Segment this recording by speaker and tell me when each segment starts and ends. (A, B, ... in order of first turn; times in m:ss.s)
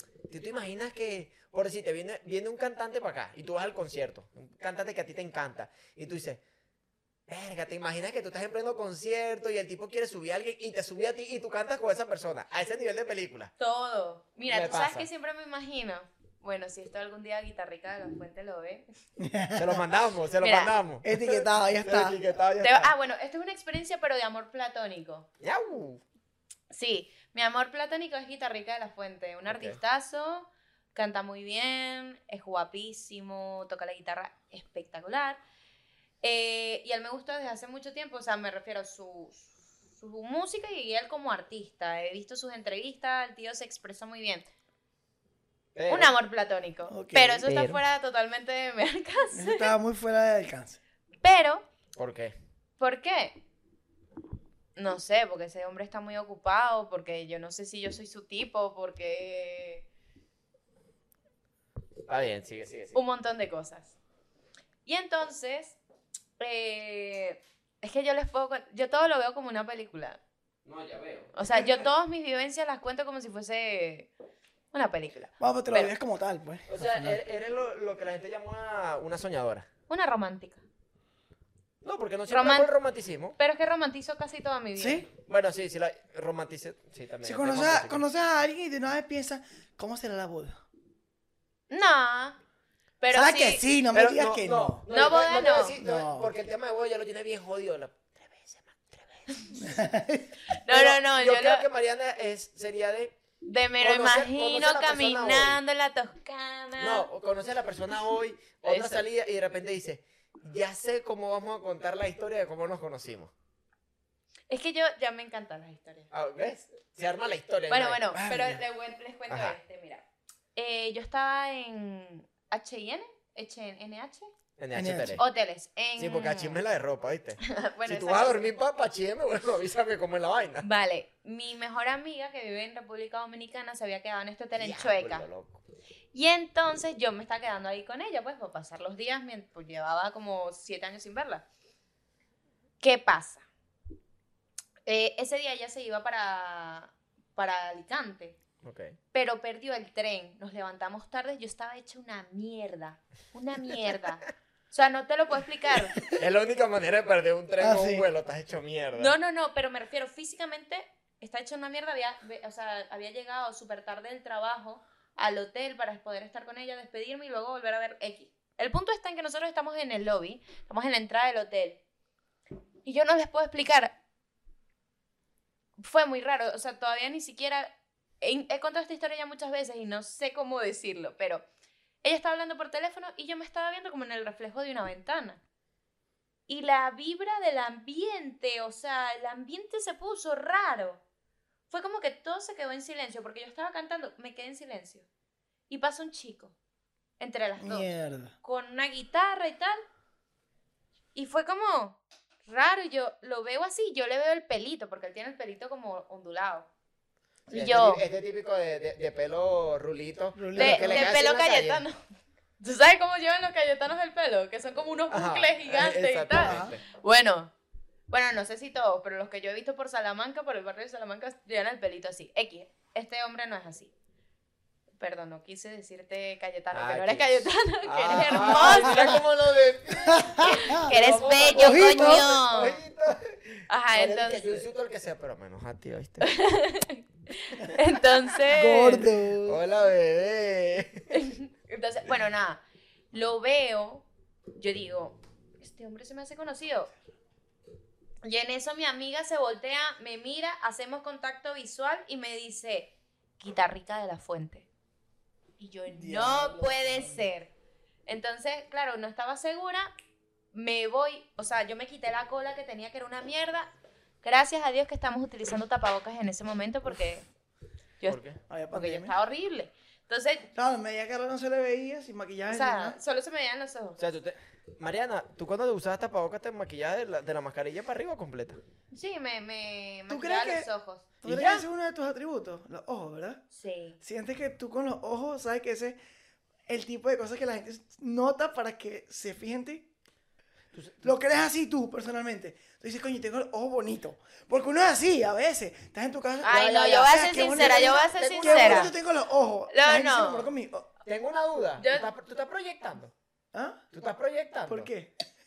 0:00.3-0:06.4 A
0:07.3-0:13.5 A
0:13.6-0:18.8 B
0:14.5-0:15.1 A
0:19.2-0:19.8 C
0:19.6-0:22.9 A
0:20.4-0:20.7 B
0:21.0-0:22.2 C
0:22.6-0:25.3 B
0:25.4-0:26.0 A
0:26.7-0:35.4 B
0:29.5-0:29.8 A
0:36.2-0:44.5 B
0:45.8-0:46.1 A
0:45.9-0:49.7 B
0:46.9-0:47.5 C
0:47.4-0:47.8 A
0:49.3-0:50.8 C
0:51.2-0:51.6 B
0:52.0-0:52.3 A
0:52.8-0:53.4 B
0:54.8-0:59.8 B
1:02.1-1:03.0 A
1:02.9-1:04.0 B
1:04.9-1:05.8 B
1:06.4-1:10.2 B
1:10.6-1:11.8 A
1:11.4-1:14.1 B
1:14.7-1:15.9 B
1:15.4-1:17.2 C
1:16.7-1:19.7 A
1:19.9-1:20.6 B
1:21.8-1:23.4 A
1:22.3-1:22.7 B
1:23.4-1:25.1 B
1:24.8-1:25.1 C
1:25.2-1:28.0 A
1:27.2-1:30.6 C
1:31.7-1:32.4 B
1:33.0-1:33.6 B
1:33.1-1:34.8 C
1:33.9-1:39.3 A
1:34.9-1:35.8 B
1:35.8-1:36.3 C
1:39.5-1:40.4 C
1:40.5-1:41.6 B
1:40.7-1:43.2 A
1:43.4-1:47.1 B
1:43.8-1:45.6 A
1:46.8-1:53.3 A
1:48.7-1:49.0 B
1:54.5-1:56.1 B
1:56.1-1:58.2 A
1:57.7-2:00.0 B
1:58.1-1:58.6 C
1:59.3-1:59.6 A
2:00.6-2:04.3 B
2:04.6-2:05.2 A
2:04.7-2:05.2 C
2:05.2-2:06.6 B
2:06.0-2:10.7 A
2:07.4-2:08.5 B
2:10.6-2:15.3 B
2:14.6-2:15.6 A
2:16.1-2:21.5 B
2:22.8-2:23.4 B
2:24.9-2:28.4 B
2:28.6-2:29.0 A
2:29.1-2:36.0 B
2:36.0-2:39.1 A
2:37.6-2:38.1 C
2:39.0-2:51.8 B
2:52.8-2:54.0 B
2:55.8-2:57.7 B
2:58.2-3:01.4 B
3:02.0-3:05.4 B
3:06.5-3:11.0 B
3:11.7-3:15.1 B
3:15.7-3:16.6 B
3:17.2-3:17.9 B
3:17.6-3:18.3 C
3:18.4-3:19.8 B
3:21.1-3:26.7 B
3:27.5-3:31.8 A
3:27.5-3:28.0 B
3:30.4-3:31.2 C
3:30.6-3:32.0 B
3:32.6-3:37.5 B
3:35.1-3:36.8 A
3:36.3-3:36.7 C
3:38.1-3:43.9 B
3:45.0-3:49.2 B
3:46.7-3:56.3 A
3:48.4-3:49.2 C
3:50.1-3:50.9 C
3:50.4-3:52.8 B
3:51.4-3:52.3 C
3:53.7-3:54.6 B
3:56.2-3:59.1 B
3:58.5-3:59.6 C
3:59.4-4:01.1 A
4:01.1-4:06.9 B
4:08.2-4:14.7 B
4:15.6-4:17.5 B
4:15.9-4:17.3 C
4:18.1-4:19.9 B
4:20.5-4:23.7 B
4:24.2-4:27.3 B
4:28.1-4:28.4 A
4:28.5-4:29.1 C
4:28.7-4:30.5 B
4:30.6-4:33.0 C
4:32.5-4:34.0 B
4:34.0-4:38.6 A
4:38.9-4:41.1 B
4:40.1-4:40.7 C
4:41.2-4:43.4 C
4:41.2-4:41.7 A
4:43.5-4:44.0 B
4:44.0-4:46.0 C
4:46.7-4:49.9 C
4:50.7-4:51.1 A
4:51.0-5:00.9 C
4:56.4-4:58.9 B
4:56.5-4:58.9 A
4:59.7-5:00.5 B
5:01.1-5:03.1 A
5:01.8-5:02.1 B
5:03.5-5:03.8 C
5:03.9-5:04.9 A
5:04.7-5:05.1 C